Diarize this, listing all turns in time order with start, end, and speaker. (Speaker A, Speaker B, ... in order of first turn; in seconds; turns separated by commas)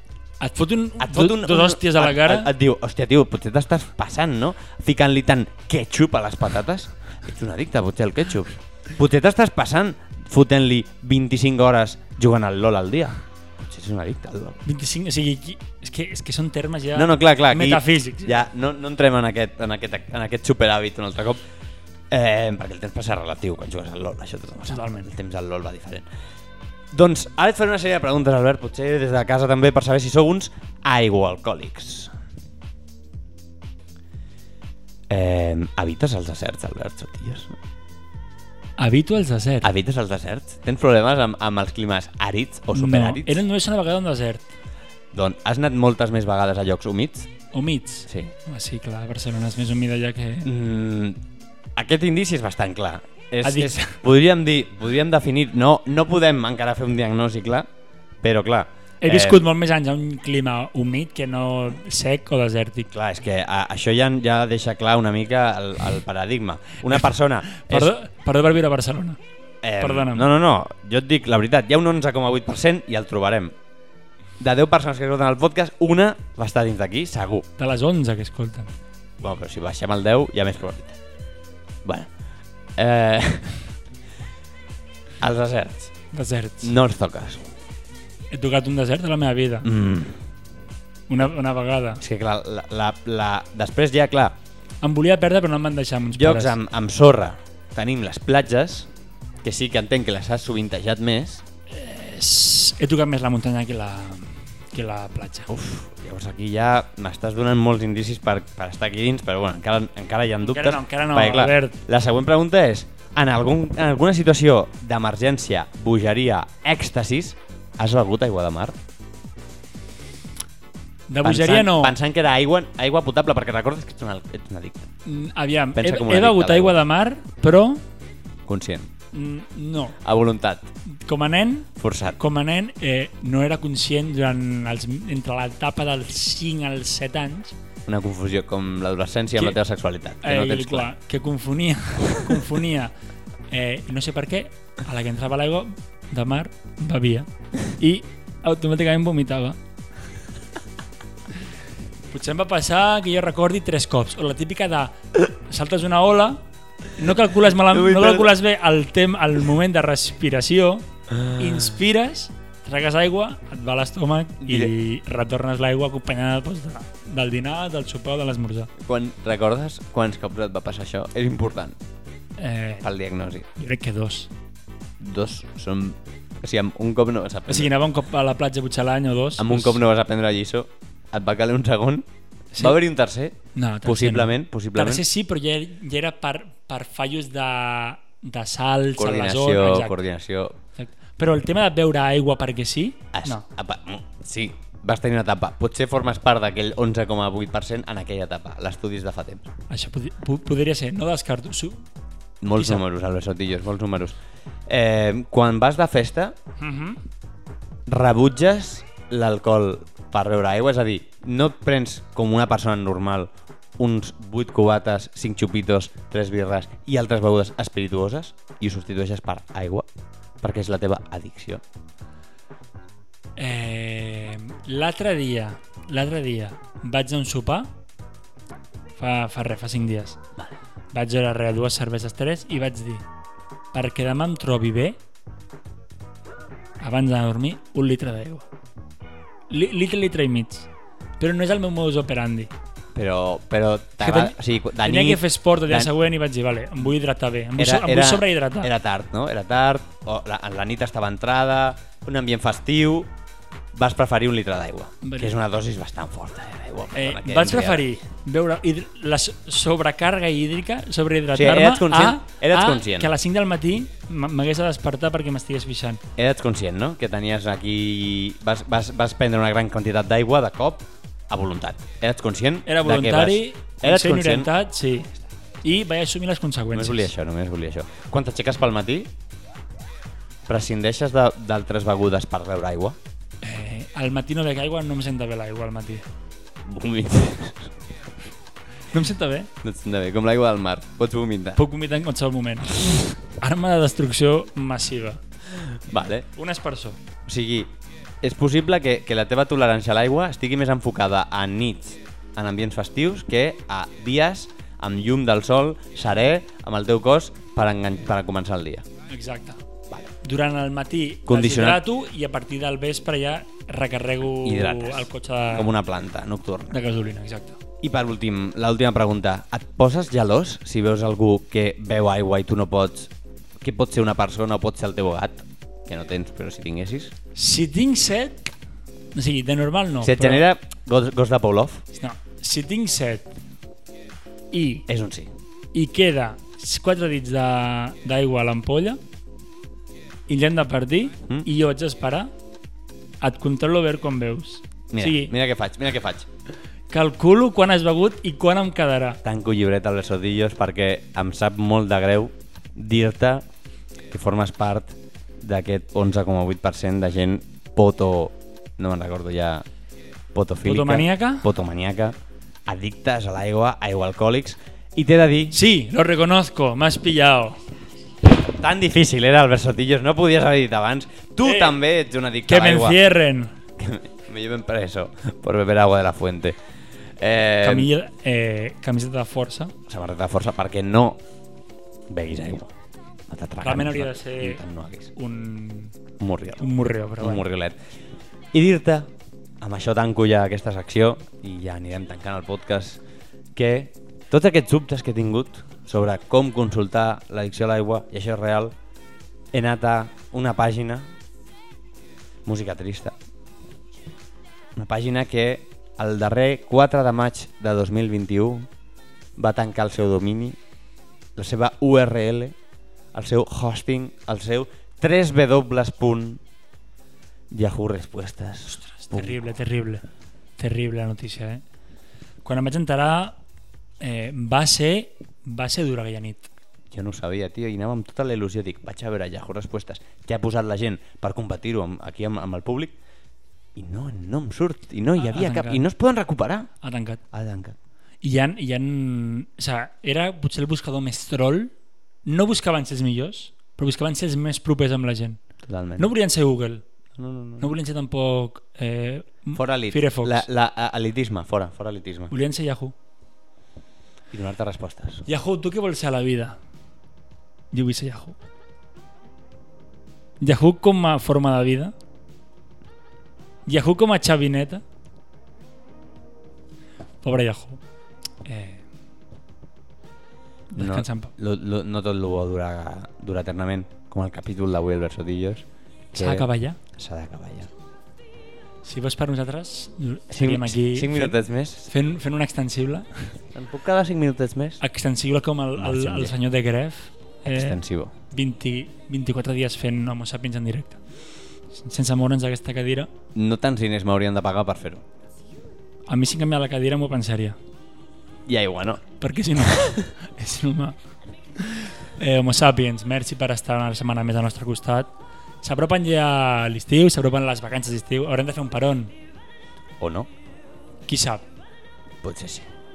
Speaker A: 0.4-2.5, Speaker B: 1.0-14.6, Speaker A: 14.7-18.4, Speaker B: 16.9-21.4, Speaker B: 22.1-26.1, Speaker A: 24.7-25.1, Speaker B: 26.9-32.1, Speaker B: 35.1-37.5, Speaker A: 38.8-39.7, Speaker B: 39.6-43.4, Speaker A: 42.7-44.5, Speaker B: 45.1-47.3, Speaker A: 47.5-50.5, Speaker B: 48.1-48.3, Speaker B: 50.4-51.2, Speaker B: 51.8-57.7, Speaker A: 53.4-54.0, Speaker B: 58.2-59.4, Speaker A: 59.0-62.9, Speaker B: 62.9-67.9, Speaker A: 67.5-69.2, Speaker B: 69.6-73.5, Speaker A: 69.8-70.3, Speaker B: 74.4-77.5, Speaker A: 77.6-78.7, Speaker B: 79.2-81.0, Speaker B: 81.8-82.1, Speaker B: 82.8-83.6, Speaker B: 85.2-85.9, Speaker A: 86.1-86.7, Speaker B: 86.6-87.5, Speaker A: 88.3-89.7, Speaker B: 89.6-90.2, Speaker A: 91.1-92.0, Speaker B: 92.0-94.4, Speaker A: 94.8-96.6, Speaker B: 96.1-98.9, Speaker B: 99.4-101.5, Speaker A: 101.7-105.5, Speaker B: 105.5-118.8, Speaker A: 110.4-111.8, Speaker A: 121.1-122.0, Speaker B: 121.2-124.9, Speaker A: 125.1-127.8, Speaker B: 125.8-126.8, Speaker B: 128.5-128.9, Speaker A: 129.1-130.0, Speaker B: 130.0-130.7, Speaker A: 131.1-137.6, Speaker B: 131.8-132.2, Speaker B: 137.9-140.9, Speaker A: 140.2-142.9, Speaker A: 143.5-149.6, Speaker A: 152.1-168.7, Speaker B: 157.7-158.3, Speaker B: 164.4-164.7, Speaker B: 168.8-171.8, Speaker A: 172.4-172.9, Speaker B: 172.8-173.5, Speaker A: 173.6-174.3, Speaker B: 175.0-177.7, Speaker A: 177.5-179.8, Speaker B: 179.4-182.1, Speaker A: 182.5-182.8, Speaker B: 182.6-185.1, Speaker A: 183.5-190.0, Speaker B: 189.0-190.6, Speaker A: 190.8-193.4, Speaker B: 193.1-199.5, Speaker A: 199.7-201.8, Speaker B: 202.4-206.4, Speaker A: 202.6-202.8, Speaker A: 206.6-207.0, Speaker B: 207.9-219.9, Speaker B: 220.4-221.6, Speaker A: 223.4-227.7, Speaker A: 229.0-230.2, Speaker A: 230.9-233.1, Speaker A: 233.7-235.0, Speaker A: 236.8-238.5, Speaker A: 239.5-240.7, Speaker A: 241.2-242.5, Speaker B: 242.9-245.9, Speaker A: 244.0-248.7, Speaker B: 247.6-253.1, Speaker B: 253.7-257.9, Speaker A: 255.0-255.4, Speaker A: 256.9-266.0, Speaker B: 261.3-263.1, Speaker B: 266.2-274.5, Speaker A: 272.7-275.1, Speaker A: 275.6-277.1, Speaker B: 276.7-279.1, Speaker B: 280.5-283.0, Speaker A: 283.4-286.1, Speaker B: 286.6-287.8, Speaker A: 288.9-289.5, Speaker B: 289.6-291.6, Speaker A: 291.6-295.2, Speaker B: 295.5-296.3, Speaker A: 296.4-297.0, Speaker B: 297.3-308.9, Speaker A: 309.1-309.6, Speaker A: 310.2-315.7, Speaker B: 311.3-311.8, Speaker B: 314.4-316.8, Speaker A: 316.7-317.6, Speaker B: 317.8-327.1, Speaker A: 327.4-328.5, Speaker A: 329.1-330.4, Speaker B: 330.0-331.8, Speaker A: 331.9-333.3, Speaker A: 334.5-334.9, Speaker B: 334.9-335.3, Speaker A: 335.7-339.0, Speaker A: 340.3-342.3, Speaker A: 343.2-345.3, Speaker B: 344.9-346.3, Speaker A: 346.9-349.2, Speaker B: 349.2-353.4, Speaker B: 354.1-359.6, Speaker B: 360.3-362.1, Speaker A: 360.6-361.5, Speaker B: 362.7-365.6, Speaker A: 365.5-367.6, Speaker B: 368.5-373.0, Speaker A: 371.4-371.8, Speaker A: 372.5-373.5, Speaker B: 373.8-376.6, Speaker B: 377.2-377.9, Speaker A: 377.6-379.7, Speaker B: 379.9-381.2, Speaker B: 382.1-382.7, Speaker B: 383.3-385.1, Speaker A: 383.6-384.6, Speaker A: 385.1-385.9, Speaker B: 386.2-387.8, Speaker A: 386.6-387.4, Speaker B: 388.5-393.0, Speaker B: 393.5-398.8, Speaker B: 399.5-401.1, Speaker B: 402.4-403.1, Speaker B: 404.8-408.7, Speaker B: 409.4-410.6, Speaker B: 411.4-412.6, Speaker B: 413.1-416.4, Speaker B: 417.5-419.4, Speaker A: 418.7-420.0, Speaker A: 420.6-421.6, Speaker A: 422.4-423.4, Speaker A: 424.0-426.5, Speaker B: 426.9-433.0, Speaker B: 433.8-436.7, Speaker A: 435.2-435.8, Speaker A: 436.8-437.2, Speaker B: 437.3-437.8, Speaker A: 438.2-441.7, Speaker A: 442.2-445.4, Speaker B: 445.6-446.1, Speaker A: 446.0-446.8, Speaker B: 447.2-447.7, Speaker A: 447.6-450.5, Speaker B: 449.5-452.3, Speaker A: 452.3-452.9, Speaker B: 454.3-455.2, Speaker A: 455.3-456.6, Speaker A: 457.7-458.4, Speaker A: 460.4-461.9, Speaker A: 463.7-464.8, Speaker A: 467.2-467.8, Speaker A: 468.4-468.8, Speaker A: 470.7-471.3, Speaker B: 470.8-477.7, Speaker A: 476.1-476.8, Speaker A: 478.8-483.3, Speaker B: 480.3-481.9, Speaker B: 483.5-484.8, Speaker A: 484.8-487.8, Speaker B: 485.8-486.4, Speaker B: 487.5-488.1, Speaker A: 488.3-491.0, Speaker A: 491.7-493.1, Speaker B: 493.4-495.0, Speaker A: 496.1-497.6, Speaker B: 498.5-499.0, Speaker A: 499.2-501.0, Speaker B: 499.7-499.9, Speaker A: 501.6-505.1, Speaker A: 505.6-509.1, Speaker B: 510.0-510.3, Speaker A: 511.1-511.4, Speaker B: 512.2-512.7